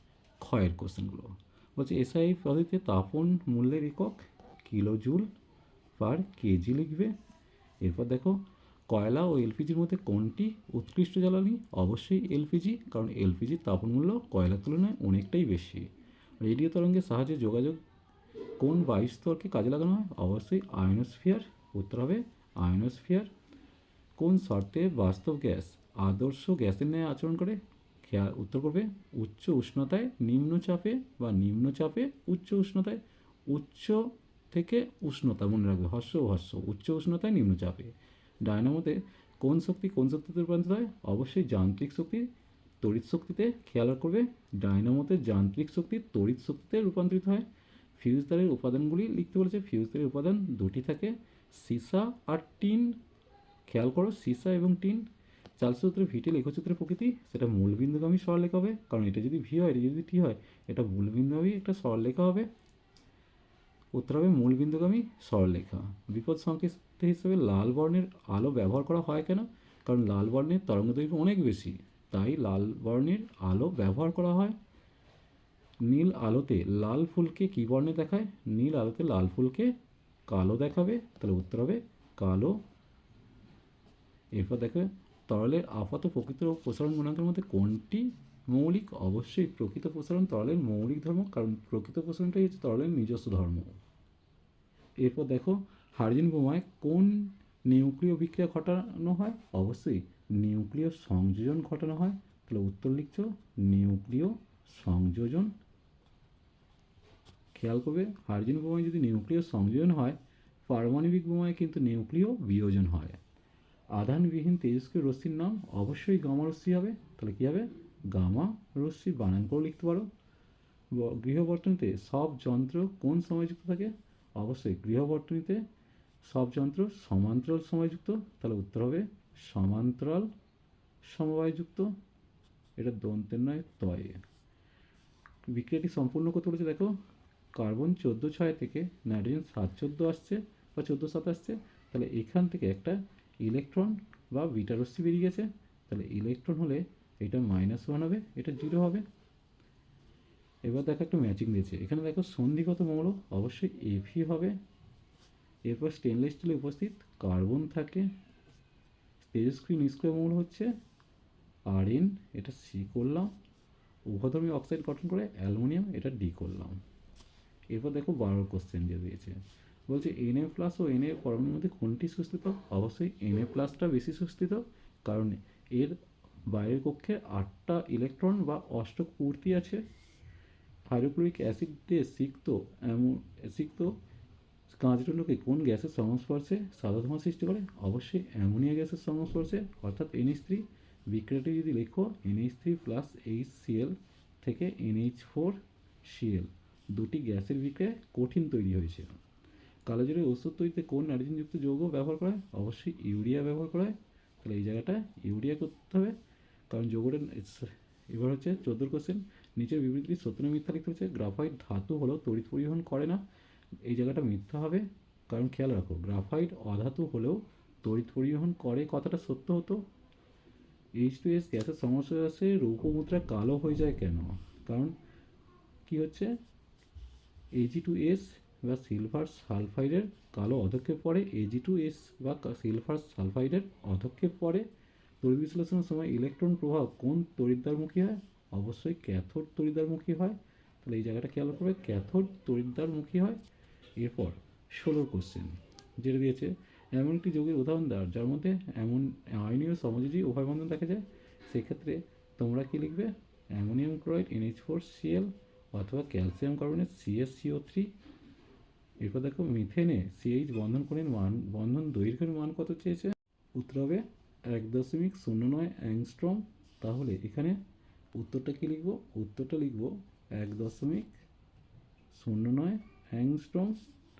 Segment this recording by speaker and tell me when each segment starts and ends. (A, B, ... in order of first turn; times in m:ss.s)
0:00.4-0:05.3 A
0:06.0-0:07.1 A
0:07.8-0:15.9 A
0:16.4-0:17.8 A
0:18.6-0:23.3 A
0:24.2-0:42.3 A
0:42.8-0:53.0 A
0:53.7-0:55.1 A
0:55.6-1:02.5 A
1:03.9-1:14.6 A
1:15.8-1:19.8 A
1:20.3-1:22.6 A
1:24.3-1:33.8 A
1:35.0-1:45.5 A
1:47.5-1:53.2 A
1:53.9-2:00.1 A
2:00.9-2:05.6 A
2:06.2-2:10.3 A
2:11.0-2:11.9 A
2:12.8-2:14.2 A
2:15.5-2:16.9 A
2:17.5-2:29.0 A
2:30.6-2:34.6 A
2:35.6-2:38.1 A
2:39.2-2:40.7 A
2:41.7-2:43.3 A
2:44.1-2:46.8 A
2:47.7-2:49.4 A
2:49.9-2:59.8 A
3:00.9-3:04.0 A
3:04.7-3:19.2 A
3:19.9-3:26.2 A
3:26.7-3:33.2 A
3:33.8-3:39.8 A
3:41.0-3:45.0 A
3:45.8-3:46.4 A
3:47.5-3:54.6 A
3:55.2-4:03.4 A
4:04.0-4:17.9 A
4:19.0-4:27.6 A
4:28.1-4:31.1 A
4:32.1-4:33.8 A